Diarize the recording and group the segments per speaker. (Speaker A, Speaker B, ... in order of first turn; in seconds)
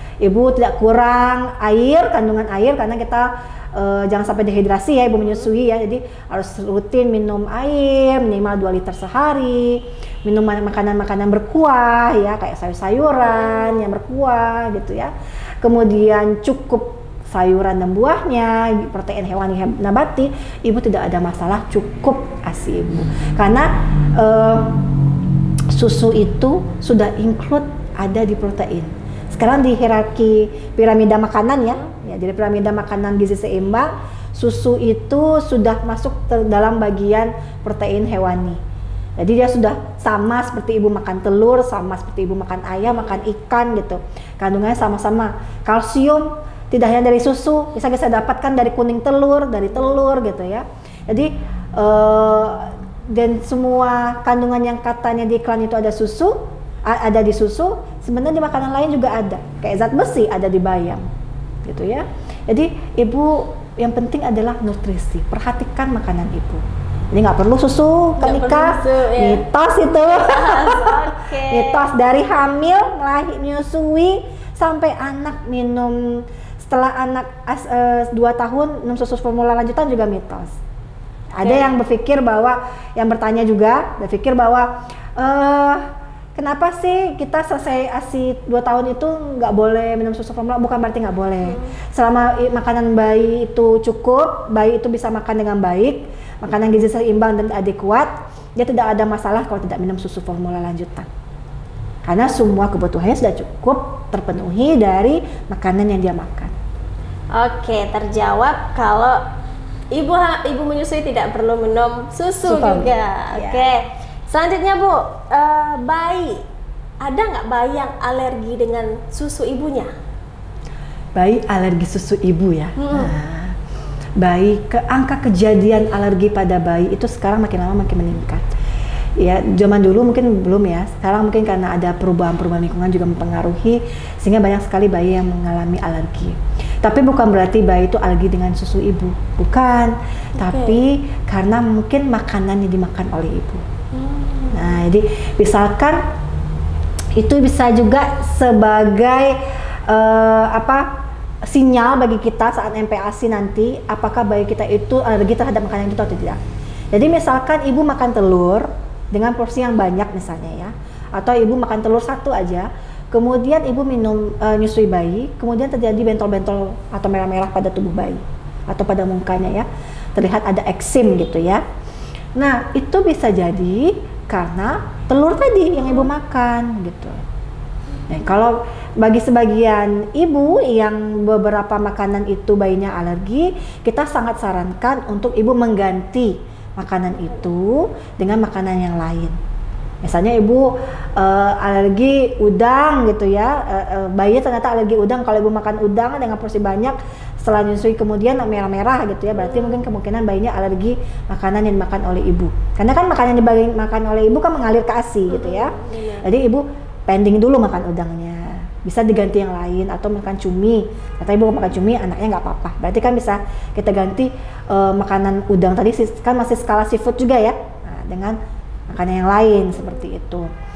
Speaker A: 0.2-24.8, 25.7-38.6, 39.2-61.0, 61.6-80.5, 81.3-101.1, 102.0-106.5, 112.4-113.7, 121.2-123.6, 124.2-128.5, 129.2-143.7, 144.5-146.0, 147.2-149.4, 149.9-156.4, 156.9-171.6, 172.4-177.2, 178.1-189.4, 190.0-218.4, 218.9-220.5
Speaker B: 68.2-71.8, 81.4-81.8, 107.3-109.2, 109.9-116.4, 117.0-119.9, 122.8-123.1, 140.4-140.8, 143.9-144.8, 199.4-199.8, 205.3-206.3